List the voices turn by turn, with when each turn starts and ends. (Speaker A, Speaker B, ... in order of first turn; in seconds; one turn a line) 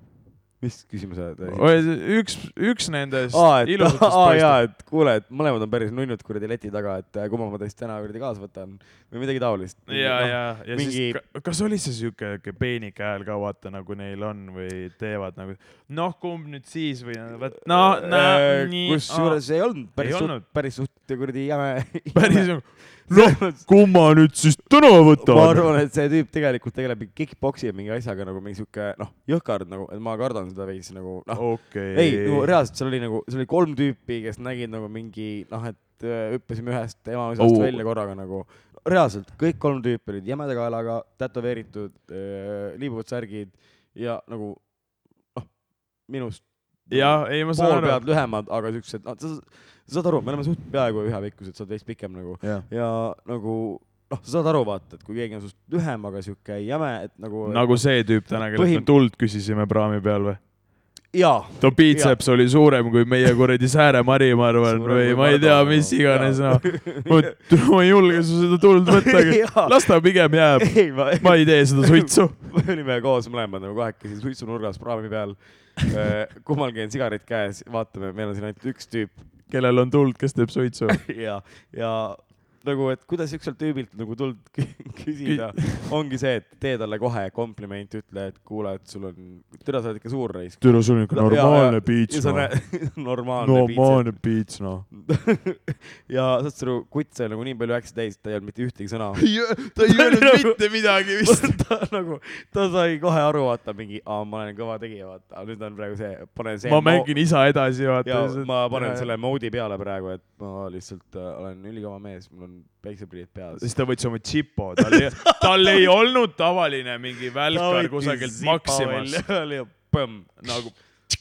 Speaker A: 0.6-1.8
Speaker B: 1.4-4.6
Speaker A: 3.3-11.2
Speaker B: 9.9-19.4
Speaker A: 17.5-23.7
Speaker B: 20.0-20.4
Speaker B: 22.1-25.7
Speaker A: 25.1-44.8
Speaker B: 31.3-32.5
Speaker B: 37.4-37.8
Speaker A: 45.3-58.9
Speaker B: 46.9-48.0
Speaker B: 52.4-52.7
Speaker B: 57.4-60.4
Speaker A: 61.1-62.2
Speaker B: 61.6-72.4
Speaker A: 64.6-67.4
Speaker A: 68.9-70.0
Speaker A: 70.6-79.2
Speaker B: 79.5-81.0
Speaker A: 80.9-94.3
Speaker B: 85.2-85.9
Speaker B: 90.6-92.7
Speaker B: 93.4-94.8
Speaker A: 94.9-107.2
Speaker B: 99.2-101.6
Speaker B: 106.6-109.1
Speaker A: 108.0-113.7
Speaker B: 113.6-119.2
Speaker A: 114.8-115.8
Speaker A: 117.5-120.7
Speaker B: 120.4-120.8